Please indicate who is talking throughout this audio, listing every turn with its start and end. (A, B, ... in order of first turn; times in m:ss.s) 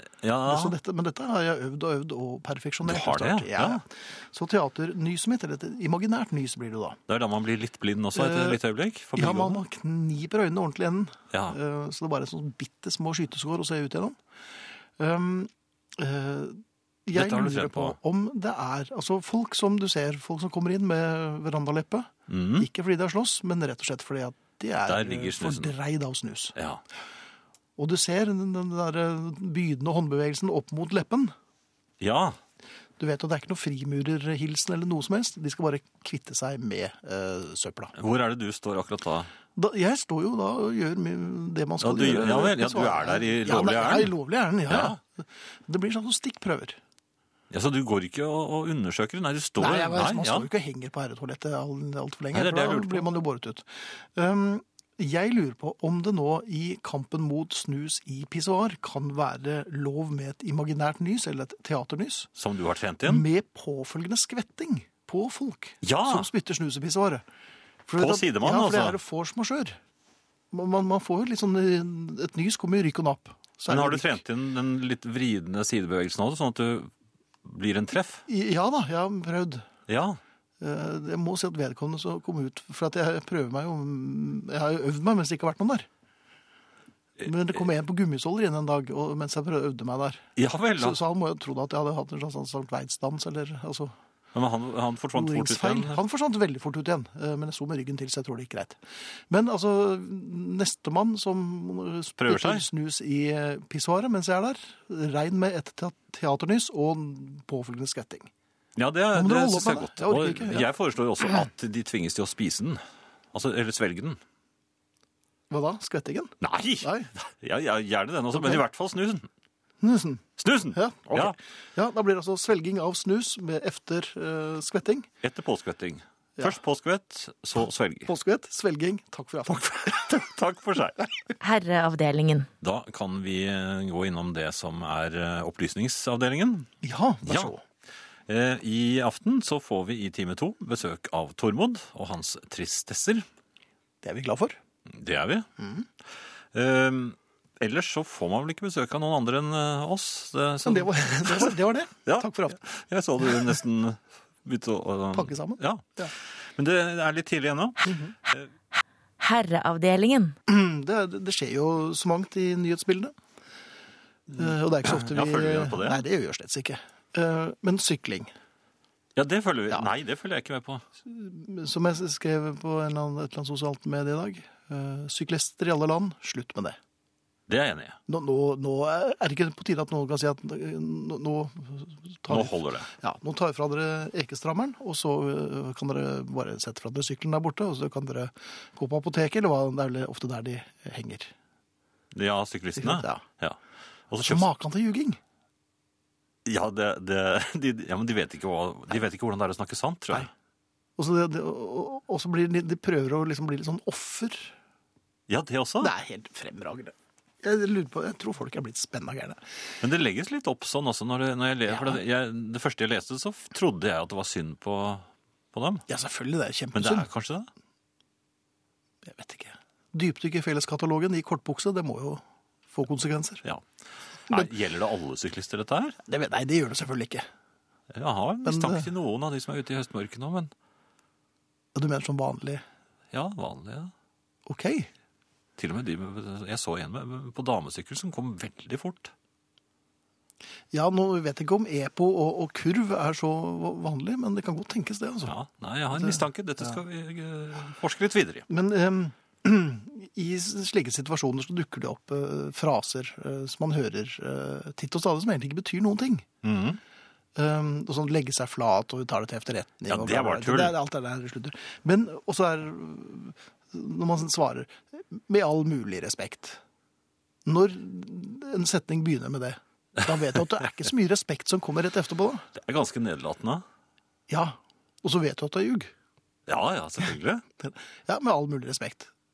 0:00.2-0:00.8 A
0:00.4-0:07.0 B
0:02.8-0:03.8 A
0:07.1-0:09.6 A
0:08.1-0:08.6 B
0:09.1-0:14.2 B
0:11.3-0:11.6 A
0:15.0-0:26.6 B
0:17.1-0:18.0 A
0:22.3-0:22.7 A
0:24.8-0:25.7 A
0:26.6-0:26.8 A
0:27.8-0:31.3 B
0:32.0-0:32.4 A
0:33.0-0:37.9 B
0:37.9-0:39.3 A
0:39.5-0:46.8 B
0:41.8-0:44.1 A
0:44.7-0:45.0 A
0:47.5-0:50.5 A
0:49.6-1:02.3 B
0:52.3-0:53.1 A
1:02.4-1:03.3 A
1:03.0-1:07.2 B
1:05.8-1:06.3 A
1:07.8-1:09.8 B
1:08.0-1:09.0 A
1:10.5-1:14.2 B
1:13.7-1:16.9 A
1:17.4-1:18.2 A
1:18.3-1:19.6 B
1:19.9-1:20.2 A
1:20.6-1:25.9 B
1:27.2-1:33.9 B
1:30.4-1:31.0 A
1:34.3-1:36.0 A
1:35.1-1:48.3 B
1:42.2-1:42.7 A
1:48.8-1:52.8 A
1:49.1-1:50.7 B
1:53.3-1:54.2 A
1:55.5-1:57.1 B
1:56.4-1:59.3 A
1:58.3-1:58.6 B
1:59.8-2:05.1 B
2:00.4-2:01.4 A
2:05.2-2:08.1 A
2:08.1-2:10.3 B
2:10.1-2:11.0 A
2:11.4-2:12.5 C
2:12.6-2:16.7 A
2:16.8-2:17.6 B
2:17.2-2:17.5 A
2:18.3-2:23.2 A
2:24.0-2:24.6 B
2:24.9-2:25.5 A
2:25.6-2:25.8 B
2:26.5-2:38.5 A
2:30.6-2:32.6 B
2:33.3-2:33.5 B
2:35.1-2:36.1 B
2:37.8-2:38.1 B
2:39.2-2:40.3 C
2:40.5-2:43.1 B
2:44.3-2:48.3 B
2:44.8-2:46.0 A
2:49.2-2:50.8 A
2:51.0-2:56.8 B
2:57.5-2:58.0 A
2:58.1-3:11.3 B
3:02.3-3:02.9 A
3:12.1-3:13.6 A
3:12.8-3:13.2 B
3:14.1-3:14.5 A
3:14.3-3:15.2 B
3:16.4-3:20.3 A
3:21.0-3:24.5 B
3:25.3-3:25.9 A
3:25.8-3:29.4 B
3:29.8-3:35.8 A
3:31.7-3:32.0 B
3:35.9-3:37.1 B
3:36.7-3:37.5 A
3:39.0-3:43.4 B
3:44.3-3:46.0 A
3:46.1-3:47.3 B
3:47.9-3:50.5 A
3:48.4-3:48.9 B
3:51.7-3:52.6 B
3:53.1-3:53.9 A
3:54.4-3:54.9 B
3:55.6-3:59.1 A
4:00.7-4:05.4 B
4:05.2-4:08.5 A
4:05.9-4:06.2 B
4:08.5-4:16.3 B
4:16.4-4:16.8 A
4:17.4-4:26.6 B
4:19.9-4:20.8 A
4:27.4-4:32.4 B
4:32.5-4:33.6 A
4:34.3-4:35.9 B
4:36.5-4:37.4 A
4:37.6-4:39.1 B